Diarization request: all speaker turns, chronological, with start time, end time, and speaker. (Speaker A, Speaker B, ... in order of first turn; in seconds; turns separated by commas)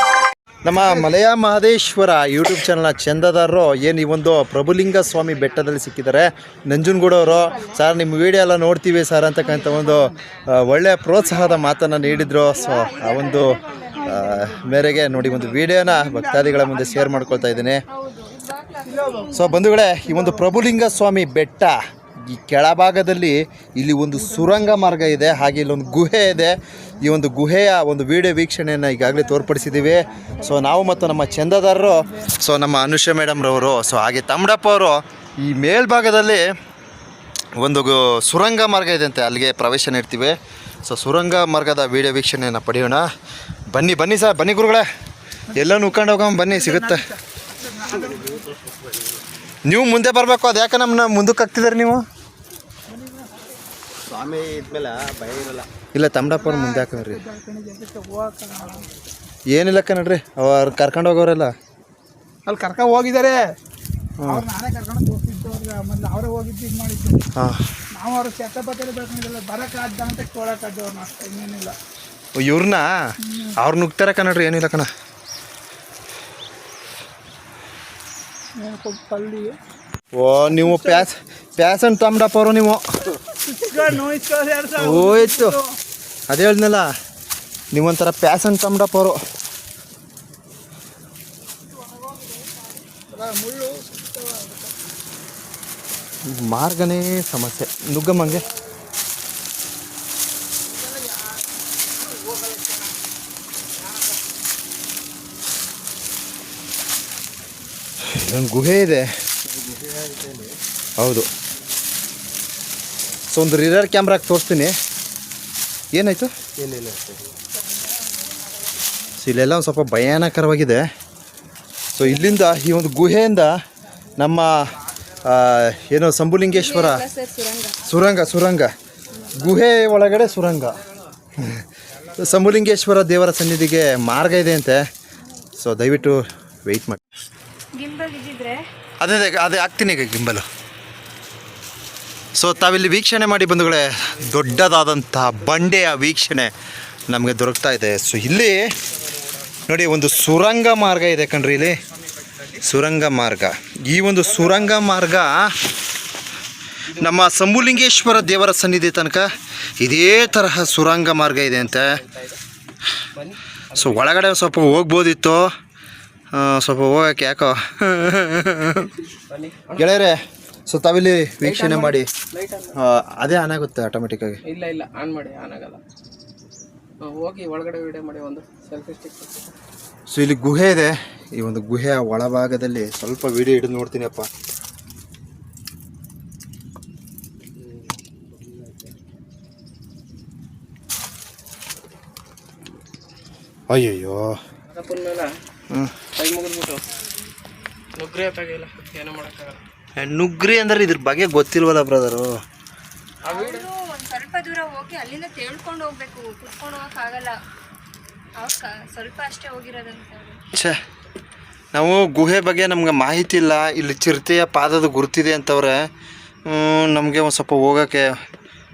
Speaker A: 0.6-17.8, Speaker B: 7.2-7.8, Speaker C: 9.6-10.1, Speaker C: 12.1-12.4, Speaker B: 12.5-14.5, Speaker D: 13.2-13.5, Speaker C: 13.9-17.7, Speaker B: 17.9-19.6, Speaker C: 18.9-19.3, Speaker A: 19.3-36.5, Speaker C: 19.9-20.9, Speaker C: 24.1-27.2, Speaker C: 29.0-31.0, Speaker B: 30.3-31.6, Speaker C: 31.7-32.3, Speaker A: 37.6-43.1, Speaker A: 43.7-44.9, Speaker A: 45.5-47.1, Speaker C: 46.5-48.4, Speaker A: 49.6-52.0, Speaker C: 52.9-53.5, Speaker E: 54.1-55.7, Speaker A: 55.9-57.2, Speaker C: 56.3-58.8, Speaker A: 59.5-61.5, Speaker C: 62.5-63.6, Speaker A: 64.2-64.5, Speaker C: 64.2-67.2, Speaker A: 67.4-67.7, Speaker C: 67.9-71.8, Speaker A: 72.4-74.9, Speaker C: 73.2-73.6, Speaker C: 78.6-79.6, Speaker A: 80.2-82.8, Speaker C: 80.6-81.0, Speaker C: 83.6-85.6, Speaker A: 84.8-85.6, Speaker A: 86.3-86.9, Speaker A: 87.7-89.2, Speaker B: 91.8-92.7, Speaker C: 93.1-94.7, Speaker A: 96.3-98.5, Speaker C: 102.1-102.8, Speaker A: 108.1-109.1, Speaker E: 109.5-110.5, Speaker A: 111.0-111.3, Speaker A: 113.3-114.8, Speaker A: 115.9-116.3, Speaker E: 116.6-117.3, Speaker A: 119.2-120.8, Speaker A: 121.9-123.5, Speaker B: 122.0-122.5, Speaker A: 124.2-127.0, Speaker B: 126.5-127.8, Speaker A: 127.8-128.7, Speaker A: 129.3-130.8, Speaker A: 131.4-134.8, Speaker A: 135.6-137.0, Speaker B: 137.7-138.7, Speaker A: 139.0-140.5, Speaker A: 142.3-146.5, Speaker D: 144.2-144.6, Speaker A: 147.1-148.7, Speaker D: 148.9-149.7, Speaker A: 149.7-151.8, Speaker D: 151.7-152.6, Speaker A: 152.6-155.8, Speaker D: 154.3-155.0, Speaker D: 156.9-158.2, Speaker A: 157.0-162.0, Speaker D: 161.4-162.4, Speaker D: 163.2-164.1, Speaker A: 163.8-165.5, Speaker A: 166.3-168.9, Speaker D: 169.3-169.9, Speaker A: 169.8-172.1, Speaker D: 171.4-172.8, Speaker A: 172.8-174.4, Speaker D: 174.5-175.8, Speaker D: 177.0-179.5, Speaker A: 180.1-184.3, Speaker A: 193.7-194.4, Speaker D: 194.7-195.3, Speaker A: 195.7-196.0, Speaker D: 196.1-196.9, Speaker D: 198.0-199.6, Speaker A: 200.0-202.3, Speaker D: 203.2-203.7, Speaker B: 203.3-207.4, Speaker B: 208.4-210.4, Speaker A: 211.7-215.9, Speaker A: 216.5-218.1